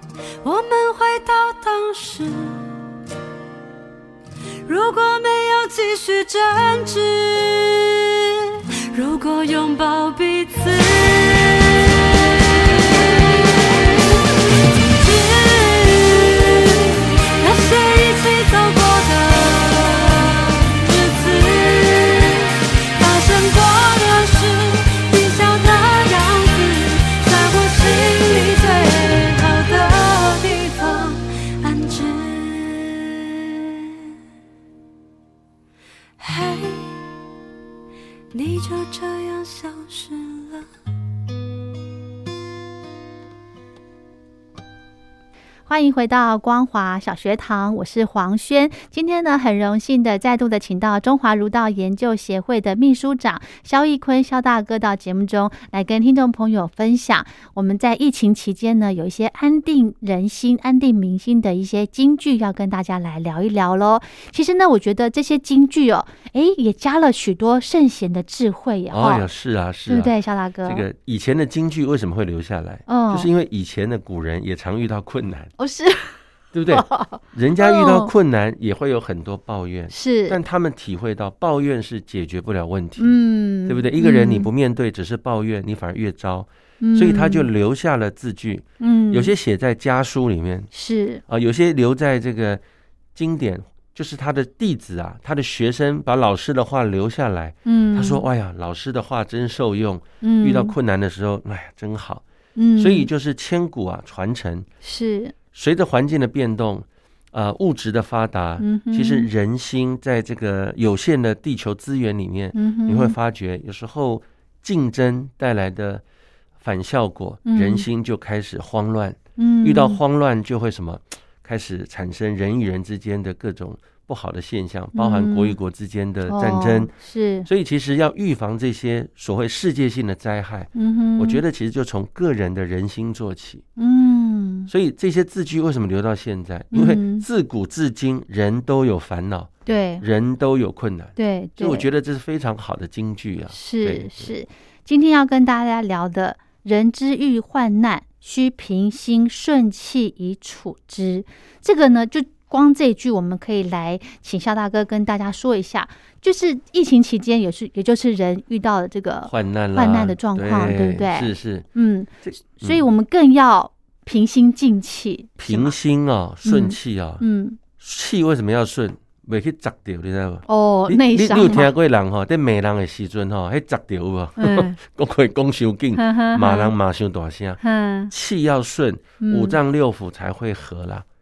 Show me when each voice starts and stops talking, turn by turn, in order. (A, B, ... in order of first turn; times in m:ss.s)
0:00.4-0:02.8 A
0:04.6-0:34.1 A
0:36.2-0:37.1 A
0:38.3-0:40.7 A
0:45.7-1:09.3 B
1:08.9-1:15.5 C
1:09.9-1:10.8 B
1:12.9-1:13.3 B
1:15.6-1:16.2 B
1:16.5-1:30.7 C
1:16.7-1:18.1 B
1:19.9-1:20.4 B
1:23.0-1:24.5 B
1:26.8-1:27.5 B
1:28.8-1:29.3 B
1:30.7-1:31.2 B
1:31.3-1:32.6 C
1:33.1-1:42.2 C
1:37.6-1:38.2 B
1:40.2-1:40.8 B
1:42.6-1:43.1 B
1:42.8-1:44.7 C
1:44.8-1:45.3 B
1:45.5-1:56.0 C
1:48.6-1:49.3 B
1:52.5-1:53.2 B
1:56.6-2:06.9 C
1:57.4-1:57.8 B
1:59.4-2:00.0 B
2:04.9-2:05.6 B
2:06.3-2:07.5 B
2:07.4-2:13.6 C
2:10.7-2:11.4 B
2:13.8-2:14.7 B
2:14.7-2:19.5 C
2:16.7-2:17.3 B
2:19.6-2:20.0 B
2:20.0-2:24.3 C
2:21.2-2:21.9 B
2:23.5-2:45.7 B
2:39.2-2:41.6 C
2:42.2-2:42.8 C
2:45.4-2:47.2 C
2:46.4-2:47.6 B
2:47.8-3:01.0 C
2:50.5-2:51.7 B
2:54.4-2:54.8 B
2:56.0-2:56.7 B
2:57.6-2:58.1 B
2:59.2-2:59.6 B